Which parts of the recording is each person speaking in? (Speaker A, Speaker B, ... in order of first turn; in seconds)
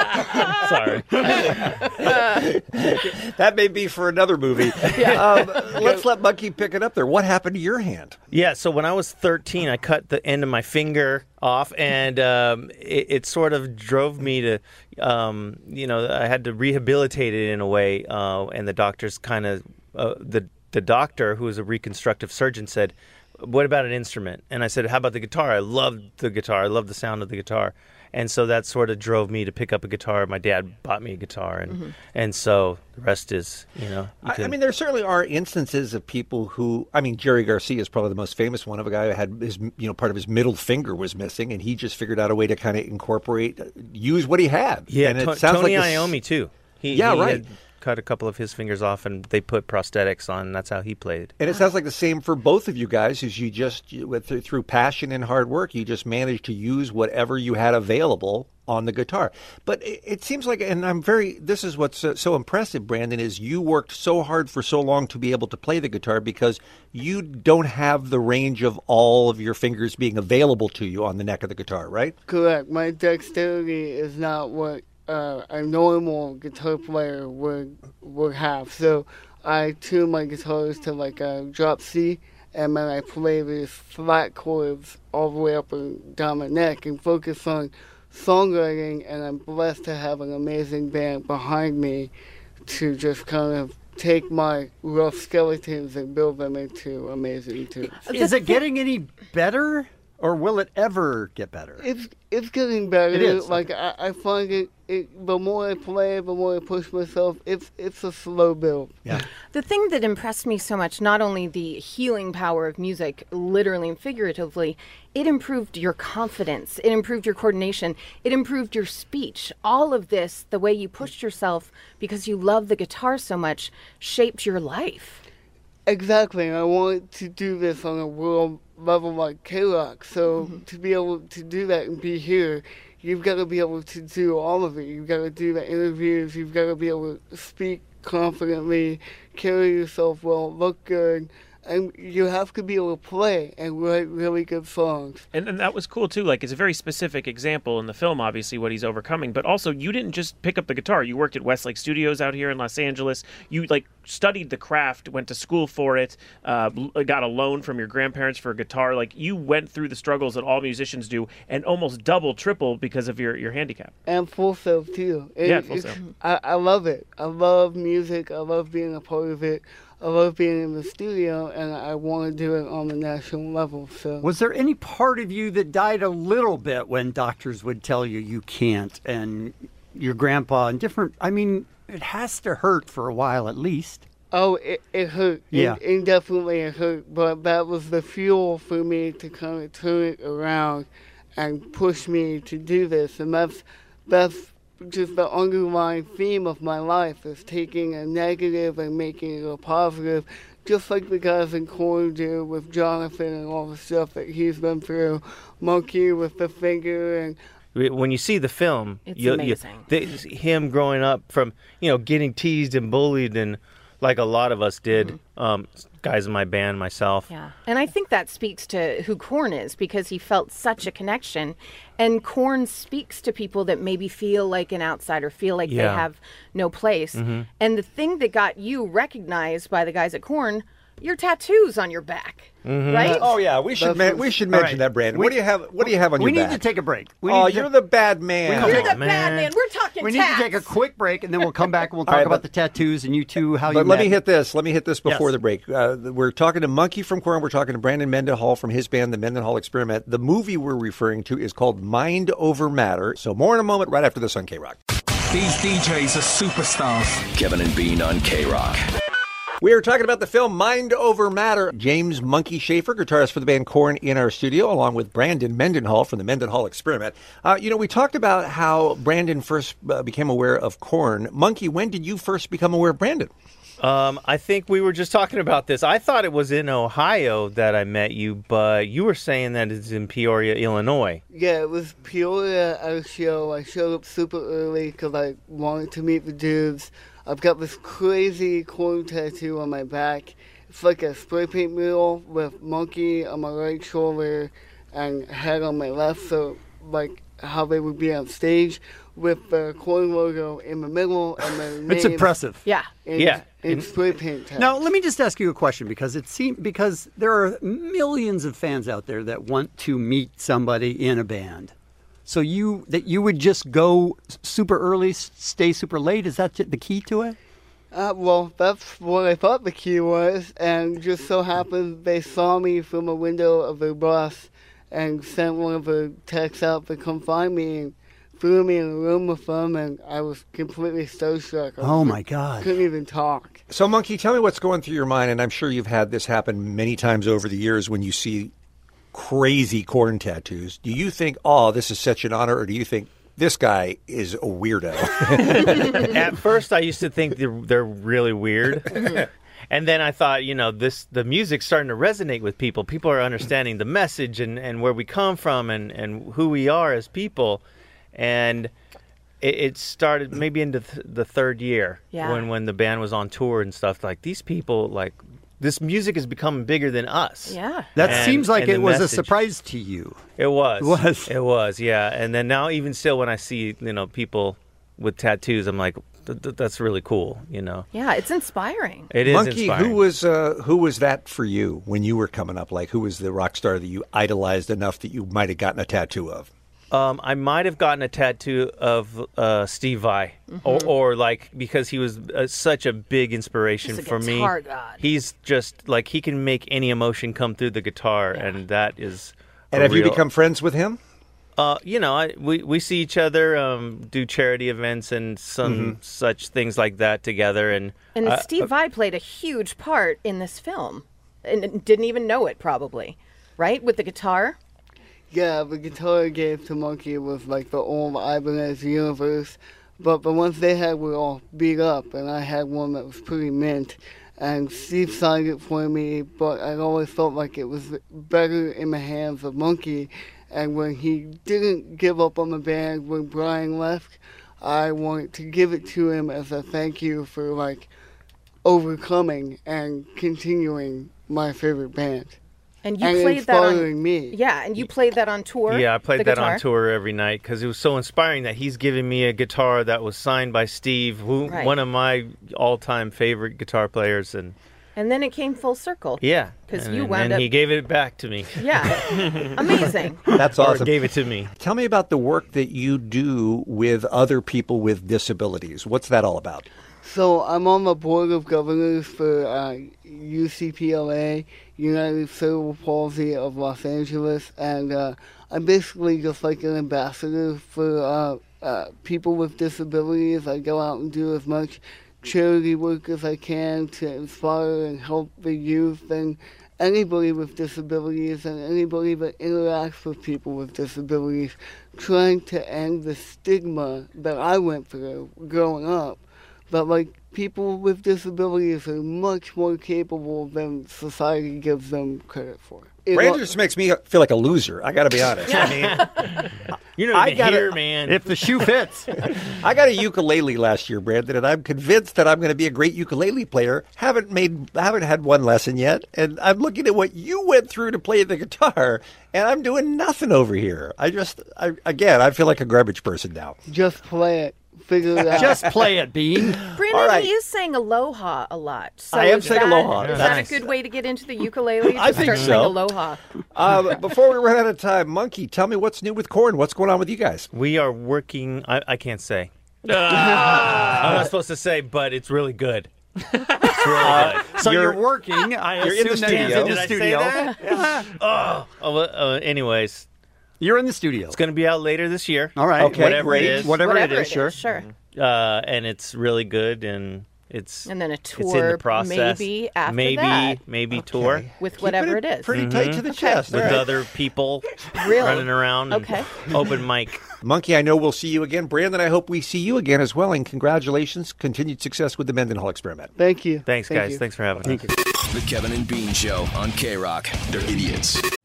Speaker A: 0.5-1.4, 8.3-34.6, 44.9-51.3, 207.8-217.3, 225.7-226.1, 227.1-227.5, 232.7-233.2, 238.5-239.5, 273.8-281.2, 303.2-303.9, 345.5-349.1, 349.7-357.6, 358.1-358.7, 359.4-369.3, 370.4-377.9, 379.1-380.0, 386.9-400.2, 401.6-408.7, 445.7-454.6, 456.2-459.9, 460.6-461.5, 505.6-506.1, 507.0-508.3, 530.0-530.6, 537.5-539.5, 540.3-542.9, 543.6-544.5, 546.1-550.1, 551.3-553.8, 555.1-561.5, 562.5-567.2, 573.7-574.8
Speaker B: 1.4-8.2, 34.2-46.2, 46.9-47.4, 51.4-72.2, 233.2-236.6, 237.3-238.9, 242.1-242.4, 243.7-254.8, 259.6-273.3, 333.7-338.5, 339.1-346.0, 379.2-386.5, 399.7-401.0, 405.6-406.0, 460.3-461.0, 461.6-466.7, 503.1-506.1, 507.1-507.7, 509.5-523.6, 526.8-527.3, 529.1-530.5, 532.1-532.8, 533.5-537.5, 544.0-545.1, 545.8-546.8, 552.8-553.8, 561.0-563.9, 567.4-573.1
Speaker C: 5.0-5.2, 31.7-31.9, 98.1-98.6, 109.5-125.2, 130.4-130.6, 209.1-209.9, 217.3-233.3, 238.6-240.7, 302.6-302.9, 362.1-362.5, 367.5-368.1, 377.9-379.1, 390.5-390.9, 393.8-395.1, 408.1-414.6, 442.8-446.6, 451.5-451.8, 455.0-457.5, 458.6-460.2, 526.7-533.2, 553.7-554.9, 557.9-560.6, 561.6-563.8, 565.0-566.3
Speaker D: 72.3-92.1, 92.6-98.1, 101.8-109.1, 125.9-145.3, 164.1-174.3, 184.3-207.4, 233.8-234.3, 281.3-302.3, 303.1-304.8, 317.9-333.6, 415.3-437.9, 438.6-442.4, 443.0-444.4, 467.0-503.4, 523.7-525.6, 573.2-574.2
Speaker E: 98.1-101.8, 103.1-103.7, 174.2-184.1, 185.5-185.8, 234.5-237.7, 238.6-239.0, 240.0-244.2, 301.9-302.6, 304.6-311.7, 312.3-317.4, 331.8-332.7, 367.9-370.2, 370.8-371.3, 508.1-509.1, 525.3-526.6, 531.9-532.8, 540.1-541.1, 544.4-548.1, 550.6-551.4, 552.6-554.6, 574.6-574.9
Speaker F: 145.3-163.9, 165.4-166.0, 540.2-540.7
Speaker G: 255.3-257.3
Speaker H: 257.3-258.9, 575.3-578.2